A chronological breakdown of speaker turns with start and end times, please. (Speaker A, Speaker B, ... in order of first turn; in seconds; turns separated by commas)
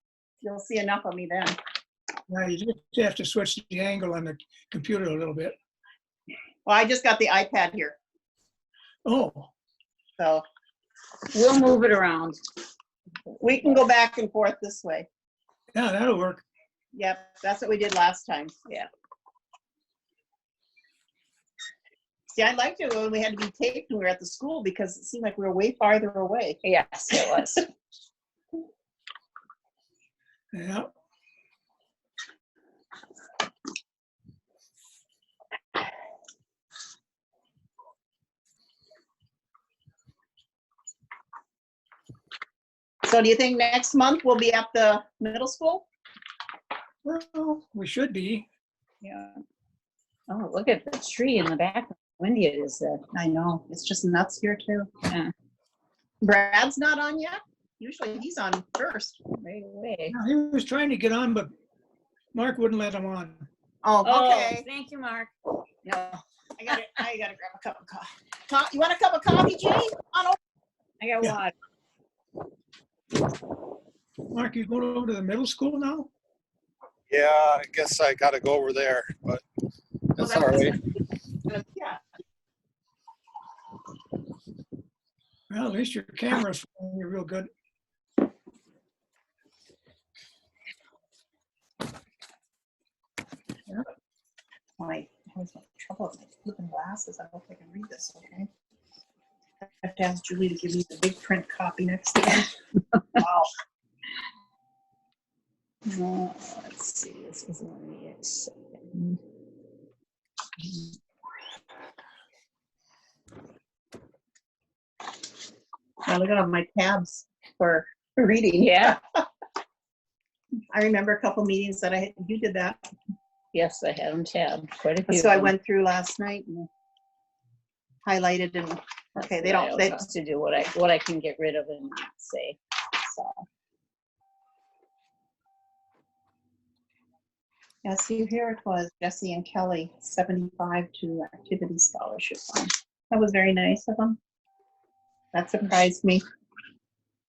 Speaker A: 0.4-1.6, Speaker B: 2.3-5.5, Speaker A: 6.7-8.0, Speaker B: 9.0-9.5, Speaker A: 10.2-10.4, Speaker C: 11.3-12.4, Speaker A: 13.4-15.1, Speaker B: 15.7-16.4, Speaker A: 16.9-18.5, Speaker A: 22.3-26.6, Speaker C: 26.6-27.7, Speaker B: 30.5-30.9, Speaker A: 43.0-45.9, Speaker B: 47.0-48.5, Speaker C: 49.0-49.4, Speaker C: 50.3-53.0, Speaker A: 53.1-54.9, Speaker A: 56.2-59.2, Speaker C: 59.4-60.1, Speaker B: 60.1-61.5, Speaker B: 62.3-63.5, Speaker A: 63.8-64.6, Speaker C: 64.0-65.3, Speaker C: 65.8-66.2, Speaker A: 66.6-70.4, Speaker C: 71.0-71.5, Speaker B: 74.3-76.1, Speaker D: 77.1-79.4, Speaker D: 80.1-80.8, Speaker A: 80.2-80.8, Speaker A: 81.5-82.0, Speaker B: 85.5-87.5, Speaker A: 94.8-98.5, Speaker A: 99.6-102.5, Speaker A: 103.2-103.5, Speaker C: 105.8-109.2, Speaker A: 116.0-119.2, Speaker C: 118.6-119.0, Speaker A: 120.7-122.8, Speaker C: 123.5-125.5, Speaker A: 125.1-126.7, Speaker A: 128.0-130.1, Speaker C: 129.2-132.6, Speaker A: 133.1-133.4, Speaker A: 137.8-144.2, Speaker A: 145.3-146.2